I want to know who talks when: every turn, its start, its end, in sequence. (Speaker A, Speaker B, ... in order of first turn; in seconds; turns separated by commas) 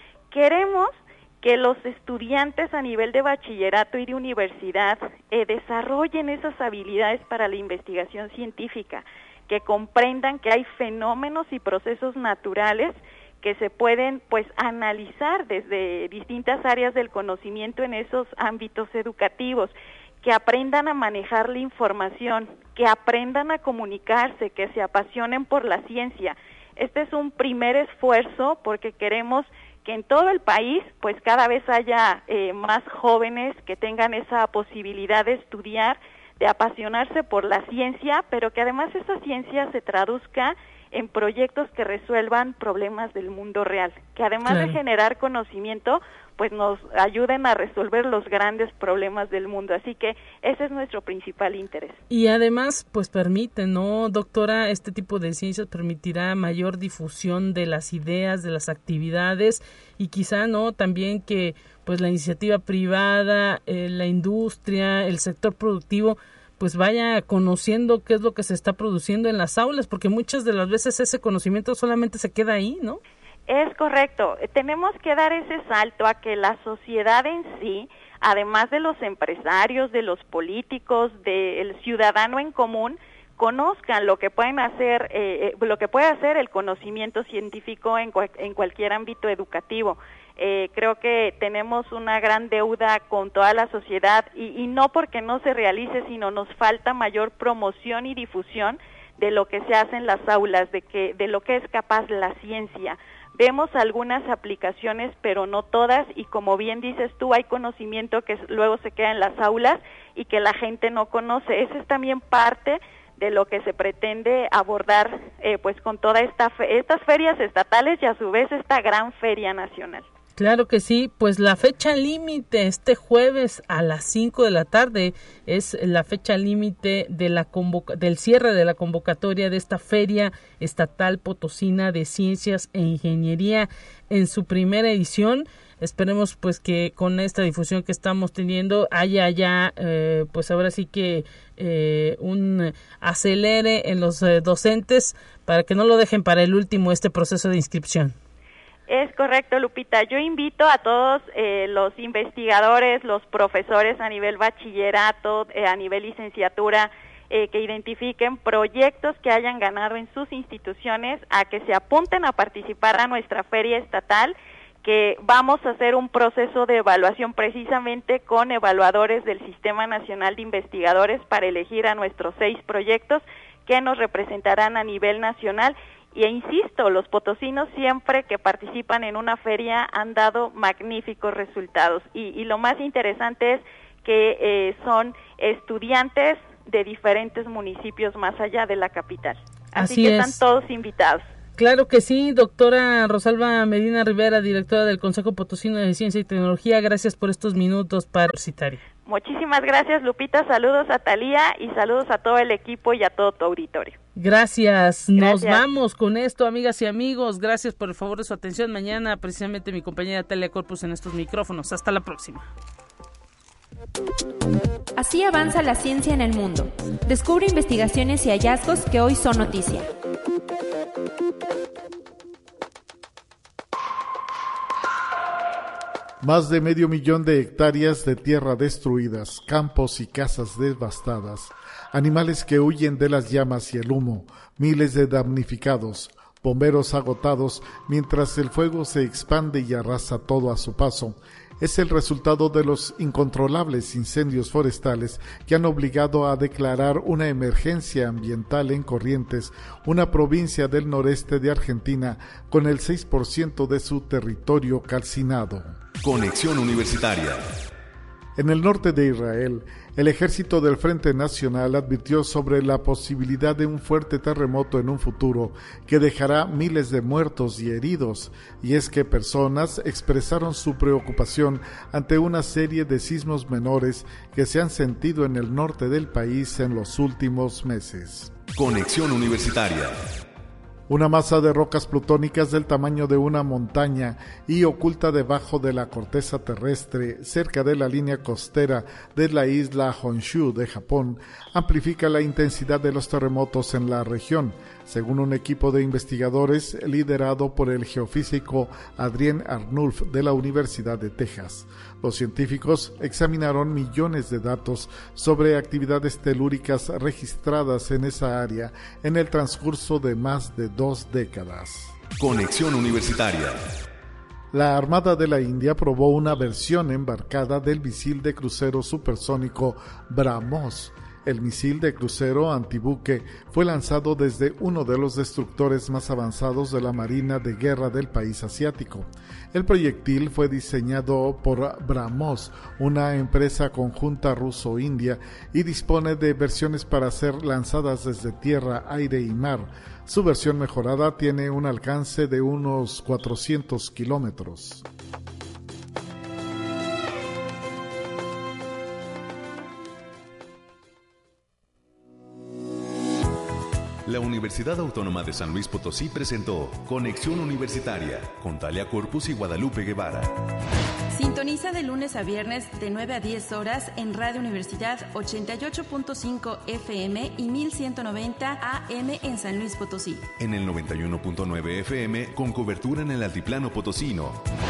Speaker A: 0.3-52.0, Speaker B: 44.5-44.8, Speaker B: 52.1-73.0, Speaker A: 73.5-120.0, Speaker B: 120.4-148.1, Speaker A: 148.9-191.2, Speaker B: 189.8-190.4, Speaker B: 191.6-198.8, Speaker A: 199.0-204.0, Speaker B: 204.2-212.5, Speaker A: 205.1-205.6, Speaker C: 215.0-219.8, Speaker D: 226.2-255.8, Speaker E: 256.0-257.6, Speaker D: 258.4-278.4, Speaker E: 278.5-280.1, Speaker D: 280.9-311.9, Speaker E: 312.2-313.7, Speaker D: 314.5-344.8, Speaker E: 354.1-360.4, Speaker C: 361.1-370.3, Speaker E: 370.4-374.4